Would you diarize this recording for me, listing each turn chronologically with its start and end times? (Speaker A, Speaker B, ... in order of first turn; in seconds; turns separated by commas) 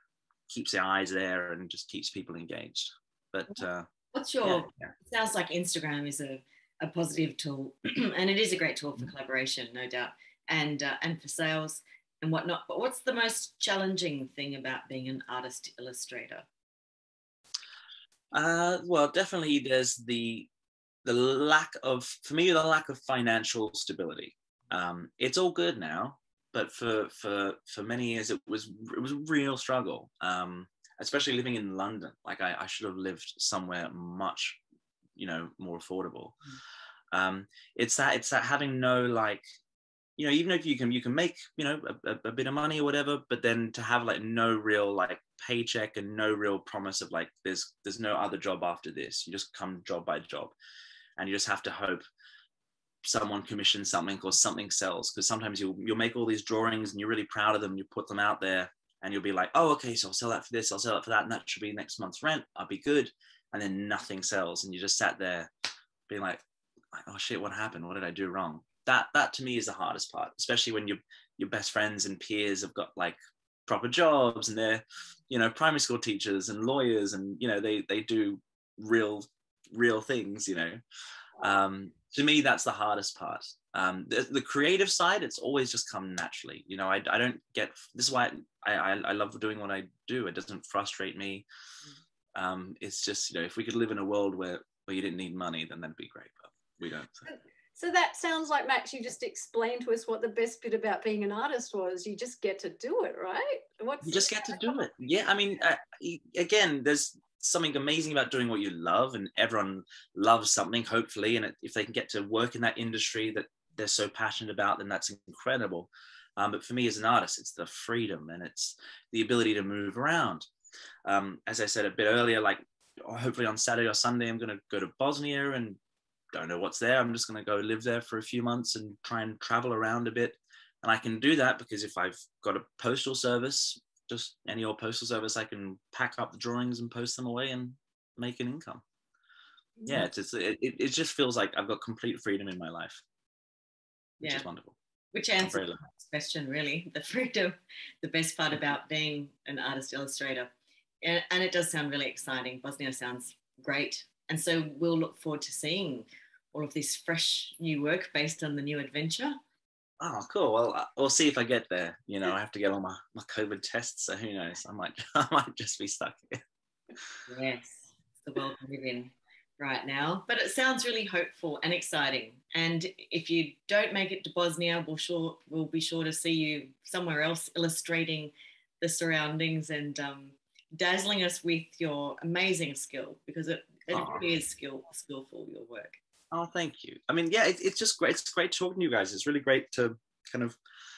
Speaker A: 0.5-3.9, Speaker B: 4.1-16.5, Speaker A: 4.4-4.9, Speaker A: 18.3-20.5, Speaker A: 21.1-34.6, Speaker A: 35.2-36.4, Speaker A: 37.1-39.4, Speaker A: 40.2-50.5, Speaker A: 51.2-52.0, Speaker A: 53.0-65.5, Speaker A: 66.1-66.4, Speaker A: 66.9-80.8, Speaker A: 81.4-91.5, Speaker A: 92.3-97.3, Speaker C: 97.3-104.9, Speaker A: 104.0-120.5, Speaker A: 121.1-125.8, Speaker A: 126.3-138.8, Speaker A: 139.9-143.0, Speaker A: 144.2-144.8, Speaker B: 144.2-144.5, Speaker B: 145.1-150.5, Speaker A: 145.4-145.8, Speaker B: 151.0-159.4, Speaker A: 160.0-166.4, Speaker B: 167.3-186.0, Speaker A: 183.9-184.3, Speaker A: 186.3-190.6